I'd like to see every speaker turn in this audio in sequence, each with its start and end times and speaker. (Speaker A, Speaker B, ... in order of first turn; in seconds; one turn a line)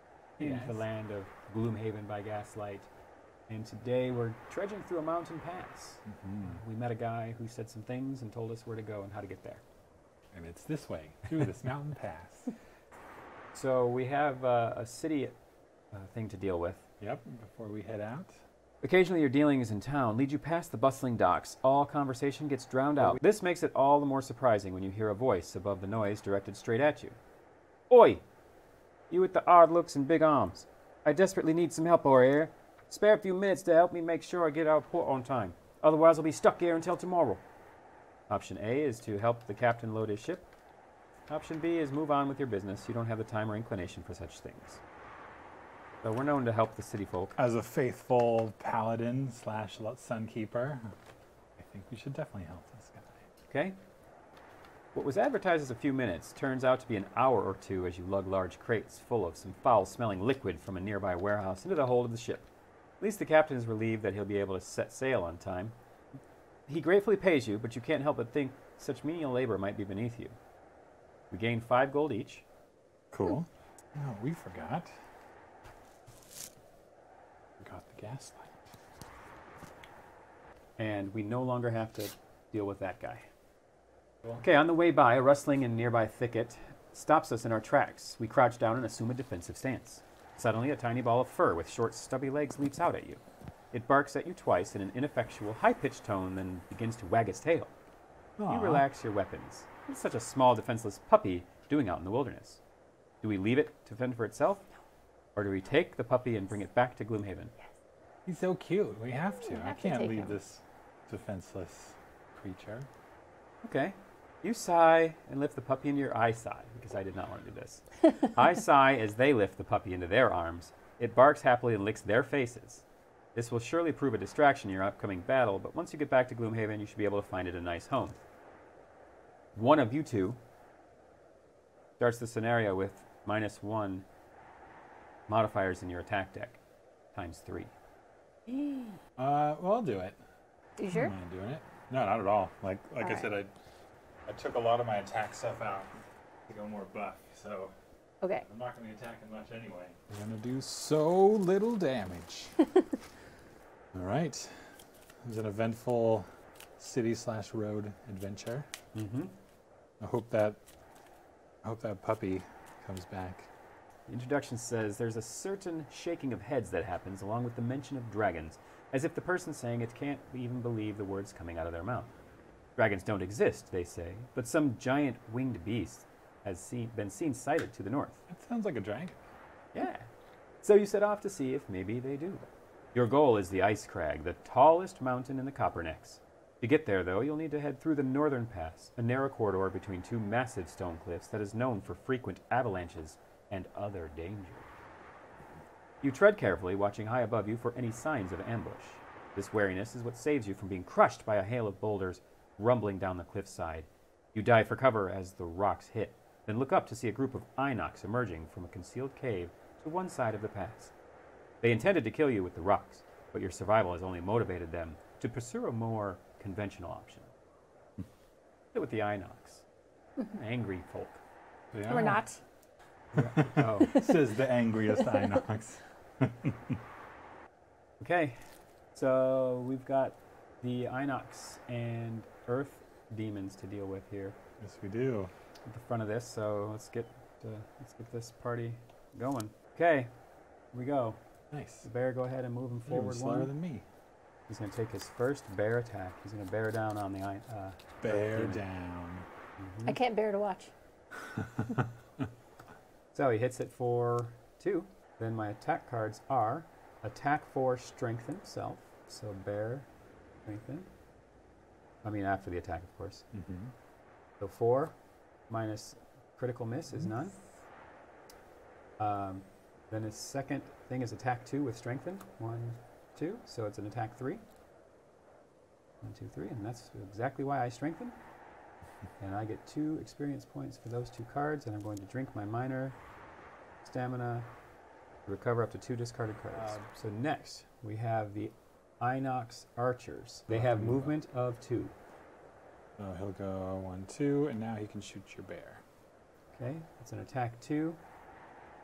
Speaker A: 0.4-2.9
Speaker B: 0.4-0.8
Speaker A: 3.5-9.6
Speaker B: 6.1-6.6
Speaker B: 10.3-12.5
Speaker A: 13.5-15.4
Speaker A: 15.9-16.9
Speaker B: 17.0-18.4
Speaker A: 18.8-27.2
Speaker A: 27.9-28.2
Speaker A: 29.1-37.4
Speaker A: 38.3-40.5
Speaker A: 41.3-44.8
Speaker A: 46.0-47.4
Speaker B: 47.4-51.0
Speaker B: 51.6-53.2
Speaker A: 53.5-53.8
Speaker A: 55.0-62.5
Speaker A: 63.0-65.8
Speaker A: 66.7-70.4
Speaker A: 71.3-72.5
Speaker B: 73.1-74.9
Speaker B: 77.6-78.7
Speaker A: 80.8-83.3
Speaker A: 84.4-97.7
Speaker B: 98.4-98.9
Speaker A: 98.5-102.6
Speaker A: 103.2-104.7
Speaker A: 105.3-107.5
Speaker B: 108.3-112.9
Speaker C: 109.4-110.4
Speaker A: 113.6-122.8
Speaker A: 123.3-128.2
Speaker A: 129.6-130.4
Speaker A: 132.0-134.1
Speaker A: 135.3-136.6
Speaker A: 137.1-137.7
Speaker C: 138.5-139.0
Speaker B: 139.2-140.2
Speaker C: 140.8-141.1
Speaker B: 140.9-143.5
Speaker C: 143.0-143.3
Speaker B: 144.3-145.9
Speaker B: 146.5-147.7
Speaker B: 148.4-152.7
Speaker B: 153.9-158.7
Speaker A: 158.9-159.3
Speaker B: 160.0-160.6
Speaker B: 161.6-163.5
Speaker A: 164.1-172.1
Speaker A: 172.8-178.2
Speaker B: 178.3-179.2
Speaker A: 179.7-180.1
Speaker A: 180.6-194.7
Speaker A: 196.0-210.9
Speaker A: 211.6-217.3
Speaker A: 218.7-219.6
Speaker A: 220.2-221.2
Speaker B: 221.7-222.2
Speaker C: 221.9-222.4
Speaker A: 223.1-224.0
Speaker B: 223.2-226.8
Speaker C: 223.9-224.2
Speaker C: 225.0-225.4
Speaker A: 228.0-228.4
Speaker A: 228.9-234.4
Speaker B: 234.6-235.3
Speaker A: 235.7-240.1
Speaker A: 240.7-241.2
Speaker B: 241.5-241.9
Speaker A: 241.8-243.5
Speaker B: 242.9-243.9
Speaker A: 244.5-248.6
Speaker B: 248.0-249.3
Speaker A: 249.6-250.0
Speaker C: 249.9-250.7
Speaker B: 251.2-252.3
Speaker A: 253.1-259.9
Speaker A: 260.5-260.9
Speaker A: 262.0-263.3
Speaker B: 263.3-263.7
Speaker A: 264.4-265.0
Speaker A: 265.5-267.4
Speaker A: 269.0-274.4
Speaker A: 276.0-278.1
Speaker A: 279.2-283.0
Speaker A: 283.8-284.5
Speaker A: 285.3-291.9
Speaker B: 286.5-286.9
Speaker B: 290.5-291.1
Speaker B: 293.0-295.8
Speaker A: 296.6-298.0